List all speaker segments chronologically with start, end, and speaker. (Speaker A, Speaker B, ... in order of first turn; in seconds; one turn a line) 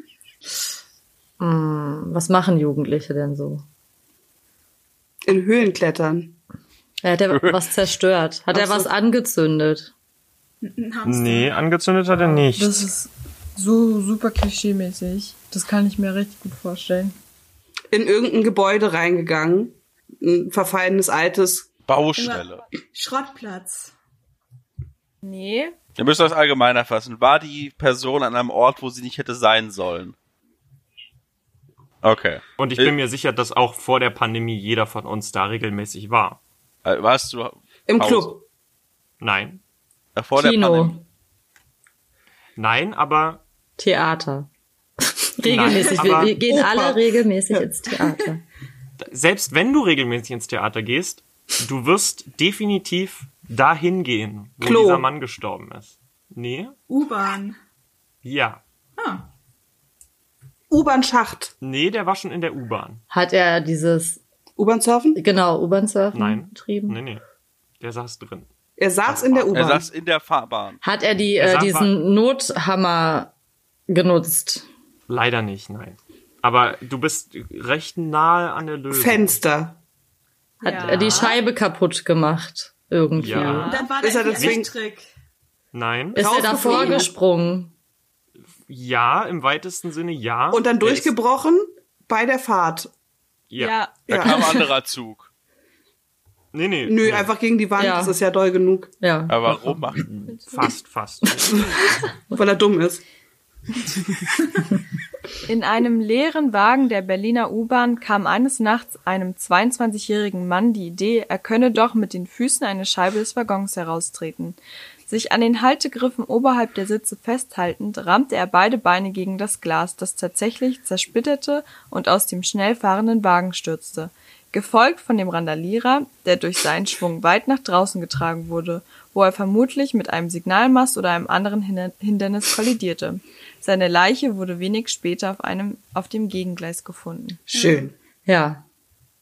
Speaker A: 1.4-3.6
Speaker B: 5.2-6.3
Speaker A: 7.0-9.9
Speaker C: 7.3-7.6
Speaker B: 8.5-8.9
Speaker D: 10.6-11.6
Speaker E: 11.1-12.9
Speaker F: 12.1-17.1
Speaker B: 17.9-21.7
Speaker C: 21.9-22.6
Speaker D: 22.1-23.9
Speaker F: 25.2-25.8
Speaker C: 26.0-30.1
Speaker C: 32.0-32.9
Speaker E: 32.6-36.4
Speaker C: 36.8-38.3
Speaker B: 37.9-38.4
Speaker E: 39.2-39.6
Speaker C: 40.1-41.0
Speaker A: 40.4-41.0
Speaker E: 42.6-43.4
Speaker A: 43.8-44.5
Speaker A: 45.0-48.4
Speaker E: 45.4-46.4
Speaker D: 45.7-46.1
Speaker B: 46.4-47.7
Speaker E: 49.0-56.8
Speaker B: 54.6-55.1
Speaker D: 56.9-57.6
Speaker E: 58.2-58.6
Speaker D: 59.0-59.3
Speaker B: 60.7-61.5
Speaker E: 61.6-63.0
Speaker A: 63.1-64.2
Speaker B: 64.6-65.2
Speaker A: 65.2-67.0
Speaker E: 66.1-67.2
Speaker E: 67.8-68.5
Speaker B: 68.8-69.9
Speaker E: 69.0-69.6
Speaker C: 69.5-70.8
Speaker A: 70.8-73.3
Speaker E: 71.4-71.9
Speaker A: 73.9-74.7
Speaker E: 75.1-79.4
Speaker B: 78.9-79.8
Speaker A: 80.6-83.7
Speaker F: 80.6-81.4
Speaker E: 80.8-81.3
Speaker E: 83.1-83.8
Speaker F: 83.3-84.0
Speaker D: 83.7-85.1
Speaker B: 84.0-84.7
Speaker E: 84.3-84.6
Speaker E: 85.7-86.3
Speaker A: 86.1-87.7
Speaker B: 86.2-87.1
Speaker E: 88.7-91.1
Speaker B: 90.5-92.9
Speaker E: 93.5-94.3
Speaker F: 93.6-94.2
Speaker B: 94.1-94.5
Speaker C: 94.1-95.3
Speaker A: 94.2-94.7
Speaker E: 96.5-97.3
Speaker B: 96.8-98.9
Speaker A: 97.8-98.1
Speaker A: 99.0-99.8
Speaker C: 99.3-100.1
Speaker E: 99.5-101.8
Speaker F: 100.3-100.5
Speaker B: 102.3-103.0
Speaker F: 105.5-137.4
Speaker D: 137.5-137.9
Speaker B: 137.5-137.9
Speaker A: 138.2-138.6